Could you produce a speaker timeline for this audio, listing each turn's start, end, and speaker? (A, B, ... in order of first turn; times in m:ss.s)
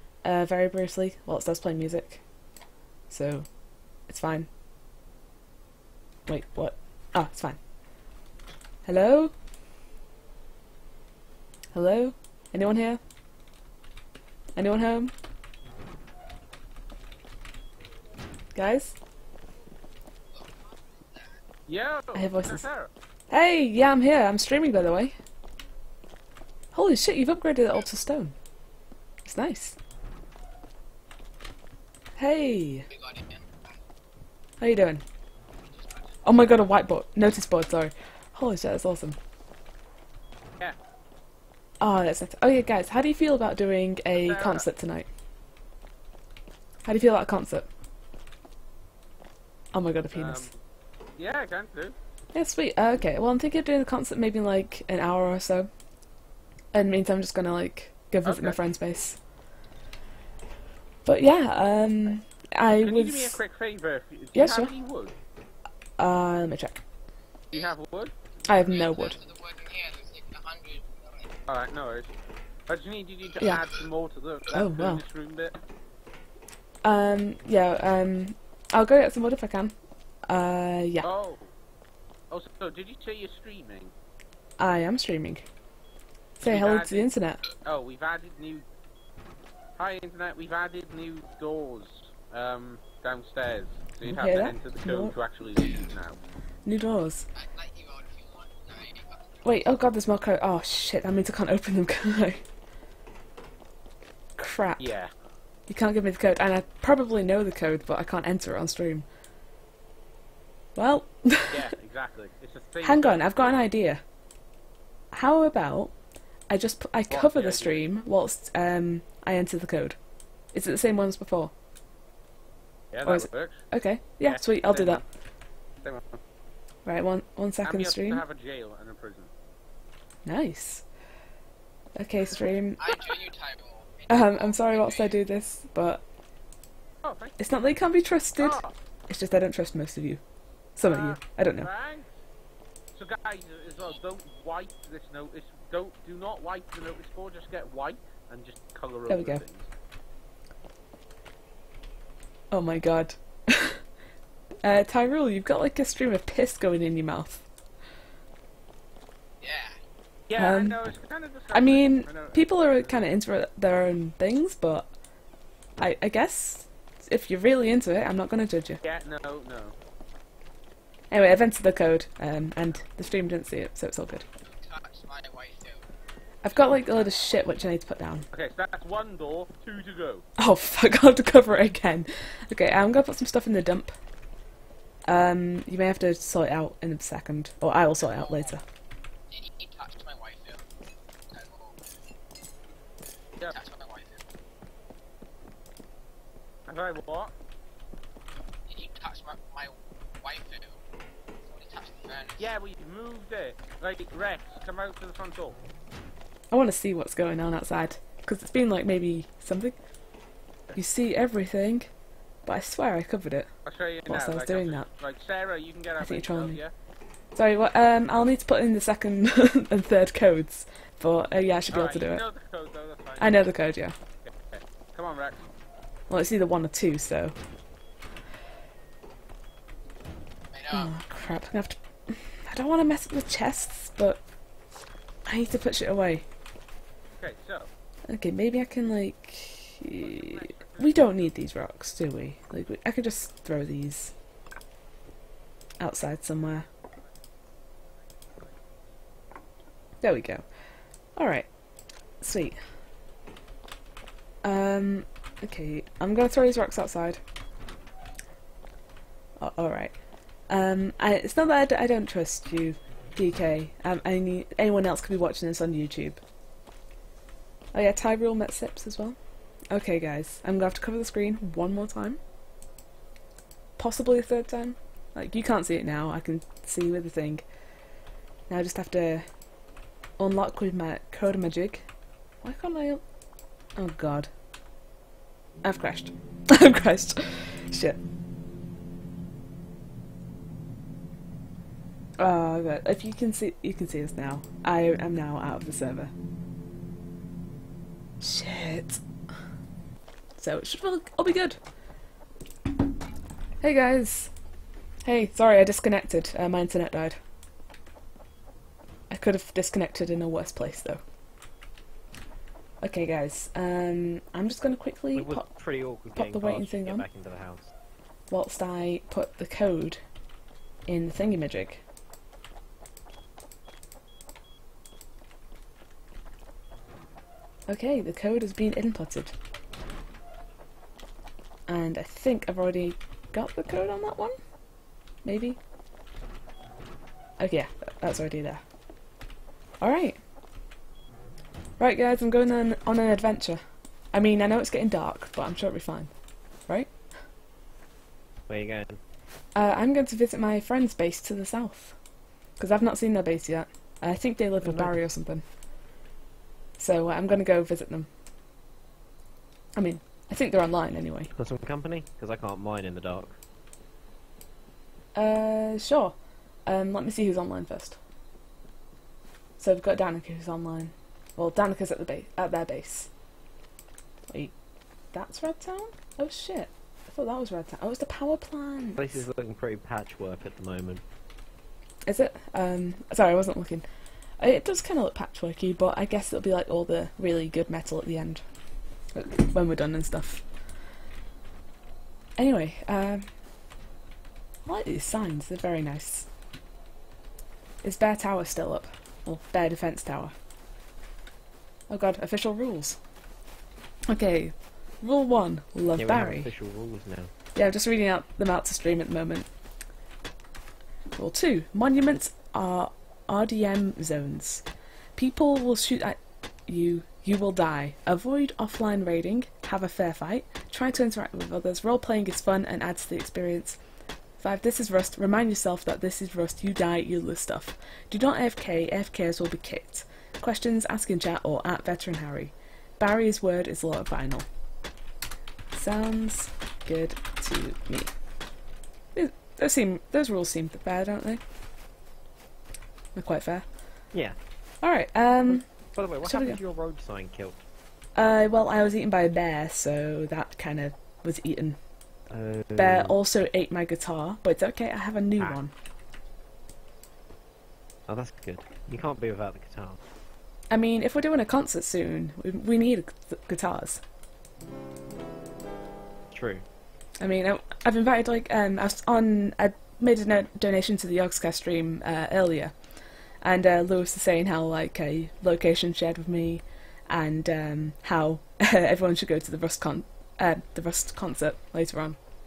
0:00.2-0:02.2 A
0:03.1-0:03.5 A
0:04.1-0:04.5 A
0:06.3-0:07.6 A
0:08.8-0:09.3 A
0:11.7-0:13.0 A
0:14.6-0:15.1 A
0:18.6-0:19.0 A
0:20.3-0:21.4 B
0:21.7-0:22.9 C
0:22.2-0:22.6 A
0:23.3-0:25.2 A
0:26.7-0:28.3 A
0:29.2-0:29.8 A
0:32.2-0:32.9 A
0:32.9-0:33.7 B
0:34.6-0:35.0 A
0:36.2-0:39.2 A
0:41.8-0:45.1 A
0:44.1-0:44.7 C
0:46.8-0:47.7 A
0:49.7-0:50.5 A
0:50.1-0:50.5 C
0:51.2-0:52.0 C
0:52.3-0:55.7 A
0:56.7-0:59.2 A
0:58.2-0:58.6 C
1:01.0-1:03.4 A
1:02.8-1:05.2 C
1:04.3-1:04.7 A
1:06.0-1:06.8 A
1:07.5-1:08.1 C
1:08.5-1:09.2 A
1:08.5-1:11.4 B
1:11.5-1:12.1 C
1:12.7-1:15.6 C
1:14.5-1:15.0 A
1:16.8-1:19.8 A
1:20.3-1:21.1 A
1:21.0-1:21.5 C
1:22.3-1:23.9 C
1:24.6-1:25.5 A
1:26.4-1:27.4 A
1:26.4-1:27.1 C
1:27.6-1:28.7 C
1:29.8-1:36.2 C
1:34.0-1:35.1 A
1:36.7-1:37.2 A
1:37.3-1:39.6 B
1:39.4-1:42.4 A
1:44.4-1:44.9 A
1:44.8-1:45.1 C
1:45.7-1:49.0 A
1:50.8-1:51.7 A
1:51.5-1:53.6 C
1:52.8-1:54.0 A
1:55.1-1:55.9 A
1:56.5-2:00.0 A
1:57.1-1:57.9 C
2:00.5-2:01.5 A
2:02.9-2:03.6 C
2:03.0-2:05.0 A
2:04.2-2:05.0 C
2:05.8-2:06.2 C
2:06.8-2:08.2 A
2:07.6-2:09.3 C
2:10.2-2:10.8 A
2:12.0-2:13.0 A
2:12.8-2:15.2 B
2:14.1-2:16.0 A
2:17.0-2:17.4 C
2:17.4-2:20.2 A
2:18.4-2:18.7 C
2:20.8-2:21.7 A
2:20.8-2:22.1 C
2:23.0-2:29.7 C
2:29.1-2:29.4 A
2:32.5-2:33.8 A
2:34.6-2:37.5 A
2:39.4-2:39.8 B
2:40.3-2:43.1 C
2:40.4-2:40.8 A
2:41.5-2:44.9 A
2:45.8-2:48.8 A
2:48.8-2:49.8 C
2:51.1-2:54.2 A
2:54.5-2:55.8 B
2:56.4-2:58.3 A
2:58.3-3:00.2 C
3:00.4-3:04.0 A
3:05.1-3:08.6 A
3:08.0-3:08.5 B
3:09.3-3:10.6 B
3:11.3-3:11.8 B
3:13.4-3:14.2 B
3:16.7-3:17.3 C
3:18.7-3:20.8 B
3:21.5-3:22.6 B
3:22.4-3:25.6 C
3:26.5-3:29.8 A
3:30.8-3:31.9 A
3:32.5-3:33.5 A
3:33.6-3:36.7 C
3:34.0-3:34.9 A
3:36.0-3:36.6 A
3:37.3-3:42.2 A
3:41.7-3:43.5 C
3:43.2-3:44.0 A
3:44.2-3:45.5 C
3:46.1-3:47.4 A
3:50.5-3:50.9 B
3:50.7-3:54.2 A
3:55.3-3:56.2 A
3:57.2-3:57.7 C
3:58.1-4:04.1 A
4:00.0-4:01.3 C
4:05.8-4:06.7 A
4:10.0-4:10.4 A
4:11.2-4:11.5 A
4:12.2-4:12.6 A
4:14.4-4:17.2 A
4:19.4-4:20.0 A
4:20.5-4:26.2 A
4:27.7-4:29.2 A
4:29.7-4:32.2 A
4:33.8-4:37.4 A
4:38.5-4:39.2 A
4:40.2-4:41.8 A
4:42.4-4:43.0 A
4:43.8-4:44.3 A
4:45.6-4:48.0 A
4:52.2-4:56.1 A
4:58.2-4:59.0 A
5:00.4-5:01.6 A
5:03.6-5:04.3 A
5:05.0-5:07.2 A
5:09.1-5:11.0 A
5:12.8-5:15.4 A
5:15.1-5:17.7 D
5:16.2-5:17.0 A
5:18.3-5:20.0 A
5:20.9-5:21.8 A
5:27.7-5:29.3 A
5:31.7-5:34.4 A
5:35.2-5:35.6 A
5:37.4-5:38.6 A
5:39.8-5:40.2 A
5:41.8-5:43.6 A
5:44.1-5:46.1 A
5:48.5-5:49.0 D
5:49.6-5:52.0 A
5:52.6-5:55.4 A
5:54.6-5:55.0 D
5:56.8-5:58.1 A
5:59.8-6:01.3 A
6:01.3-6:03.4 D
6:05.2-6:06.1 A
6:06.7-6:08.0 A
6:09.6-6:13.1 A
6:15.1-6:19.2 A
6:19.0-6:21.0 D
6:22.1-6:23.9 A
6:24.4-6:28.4 A
6:29.1-6:30.4 A
6:32.4-6:33.2 A
6:34.6-6:36.3 A
6:37.8-6:40.3 A
6:41.9-6:43.0 A
6:44.1-6:46.5 A
6:46.0-6:47.3 D
6:47.6-6:49.5 A
6:51.2-6:54.6 A
6:55.2-7:03.8 A
7:04.4-7:14.4 A
7:15.7-7:18.1 A
7:19.1-7:21.4 A
7:23.1-7:23.6 A
7:24.8-7:25.6 A
7:25.4-7:27.6 D
7:26.2-7:26.6 A
7:28.2-7:31.8 A
7:32.3-7:33.1 D
7:32.8-7:35.7 A
7:38.1-7:40.0 D
7:40.7-7:44.0 A
7:46.3-7:46.6 D
7:47.2-7:52.7 A
7:53.4-8:02.2 A